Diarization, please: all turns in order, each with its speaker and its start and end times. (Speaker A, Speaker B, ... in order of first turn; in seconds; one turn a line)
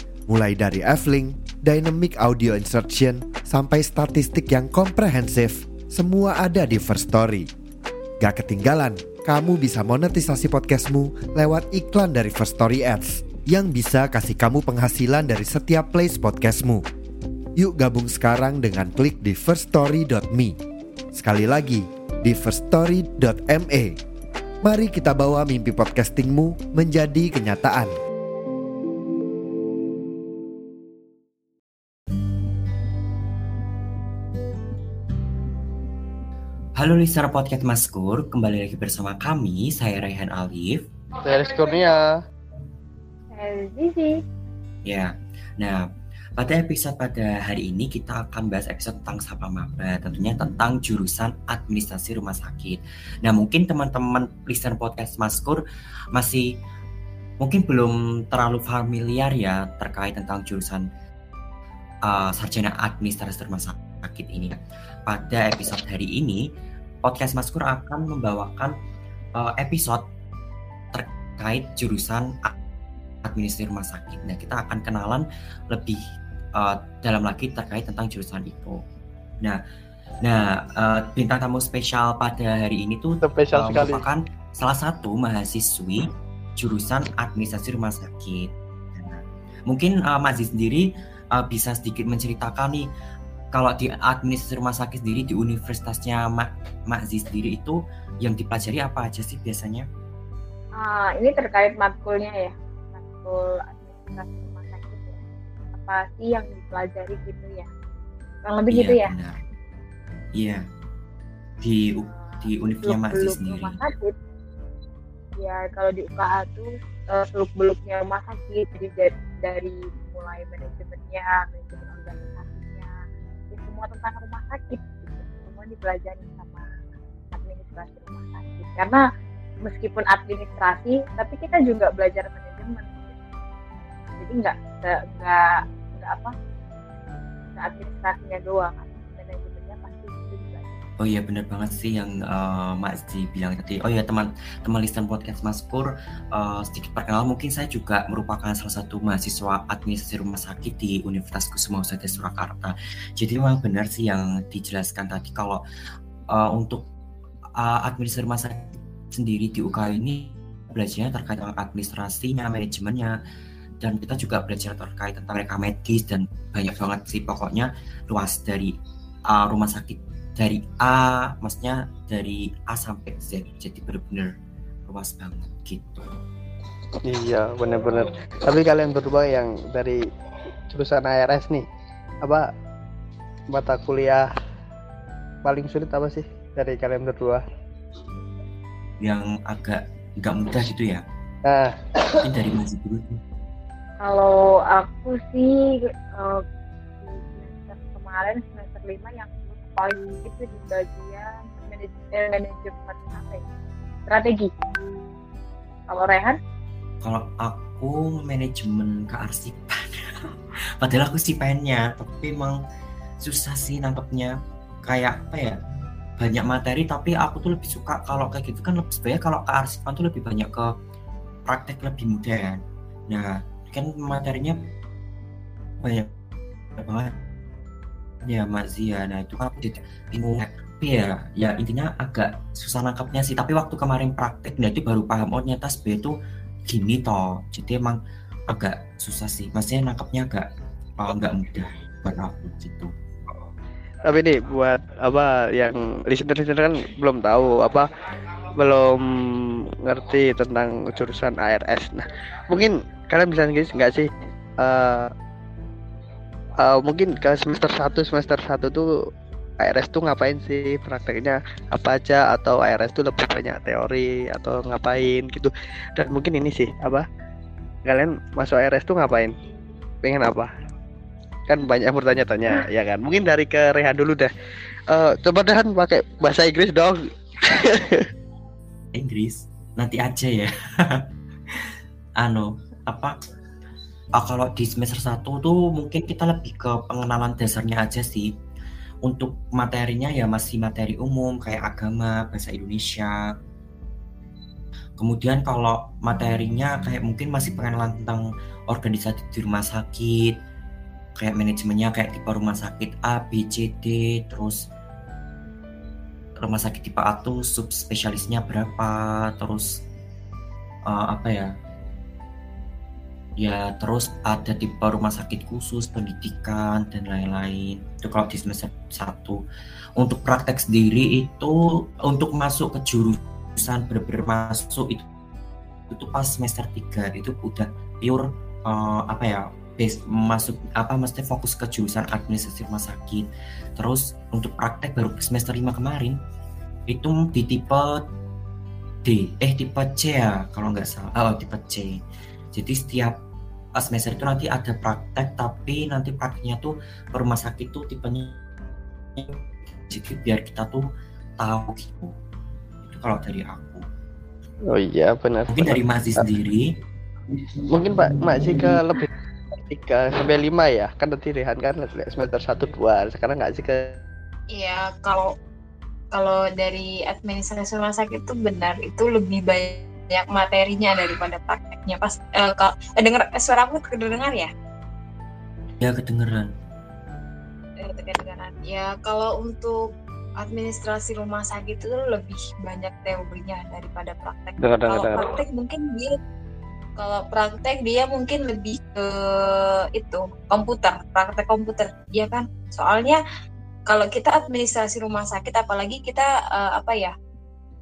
Speaker A: 0.3-7.5
Speaker A: 8.2-16.8
Speaker A: 17.6-20.6
Speaker A: 21.1-24.0
Speaker A: 24.6-27.9
Speaker B: 36.8-40.8
Speaker C: 41.2-42.1
Speaker D: 43.3-44.1
Speaker B: 44.9-45.9
Speaker B: 46.4-55.6
Speaker B: 56.1-56.5
Speaker B: 57.4-60.9
Speaker B: 62.1-66.4
Speaker B: 67.0-68.7
Speaker B: 69.4-70.0
Speaker B: 70.9-72.5
Speaker B: 73.2-76.0
Speaker B: 76.5-78.8
Speaker B: 80.2-86.1
Speaker C: 83.2-84.0
Speaker B: 86.6-92.9
Speaker B: 93.5-99.9
Speaker D: 100.8-105.2
Speaker D: 105.8-107.7
Speaker D: 108.5-109.1
Speaker B: 108.7-109.4
Speaker B: 111.6-113.8
Speaker D: 112.1-114.1
Speaker D: 115.4-122.9
Speaker D: 123.5-126.7
Speaker D: 127.3-129.0
Speaker D: 129.6-133.1
Speaker D: 134.2-136.3
Speaker D: 137.6-140.8
Speaker B: 141.0-155.6
Speaker B: 156.3-156.9
Speaker B: 157.6-163.2
Speaker B: 163.8-168.8
Speaker B: 169.3-174.3
Speaker B: 174.9-176.1
Speaker C: 177.0-180.1
Speaker C: 180.7-181.7
Speaker C: 182.2-182.5
Speaker C: 183.5-184.3
Speaker C: 185.4-187.4
Speaker B: 189.0-191.0
Speaker C: 191.5-192.2
Speaker B: 192.2-193.2
Speaker D: 194.0-196.4
Speaker D: 197.0-203.4
Speaker D: 204.1-204.9
Speaker D: 205.9-206.4
Speaker B: 207.0-210.3
Speaker B: 210.8-212.6
Speaker B: 213.2-215.6
Speaker B: 216.2-220.7
Speaker B: 221.5-224.6
Speaker B: 225.8-226.1
Speaker B: 226.8-227.1
Speaker B: 228.2-236.1
Speaker B: 236.7-242.9
Speaker C: 244.1-247.9
Speaker C: 248.6-255.1
Speaker C: 256.6-258.9
Speaker C: 259.6-267.1
Speaker C: 267.9-269.4
Speaker C: 270.0-270.5
Speaker C: 271.5-274.3
Speaker C: 274.9-278.1
Speaker B: 278.9-281.7
Speaker B: 282.2-283.1
Speaker B: 284.2-288.3
Speaker B: 289.1-293.2
Speaker B: 295.0-300.4
Speaker B: 301.2-304.6
Speaker B: 306.4-309.8
Speaker B: 310.9-311.5
Speaker B: 313.4-319.4
Speaker B: 320.0-325.1
Speaker B: 325.9-336.2
Speaker B: 336.9-338.1
Speaker B: 339.1-342.0
Speaker B: 342.5-343.2
Speaker B: 343.8-348.4
Speaker B: 349.2-350.9
Speaker B: 351.4-352.1
Speaker B: 352.8-353.8
Speaker C: 354.7-355.8
Speaker B: 355.5-356.7
Speaker C: 357.7-364.0
Speaker E: 364.5-365.3
Speaker E: 366.1-374.5
Speaker B: 375.8-376.5
Speaker E: 377.8-379.9
Speaker E: 380.4-386.2
Speaker C: 384.6-385.4
Speaker E: 387.0-393.2
Speaker E: 393.9-397.1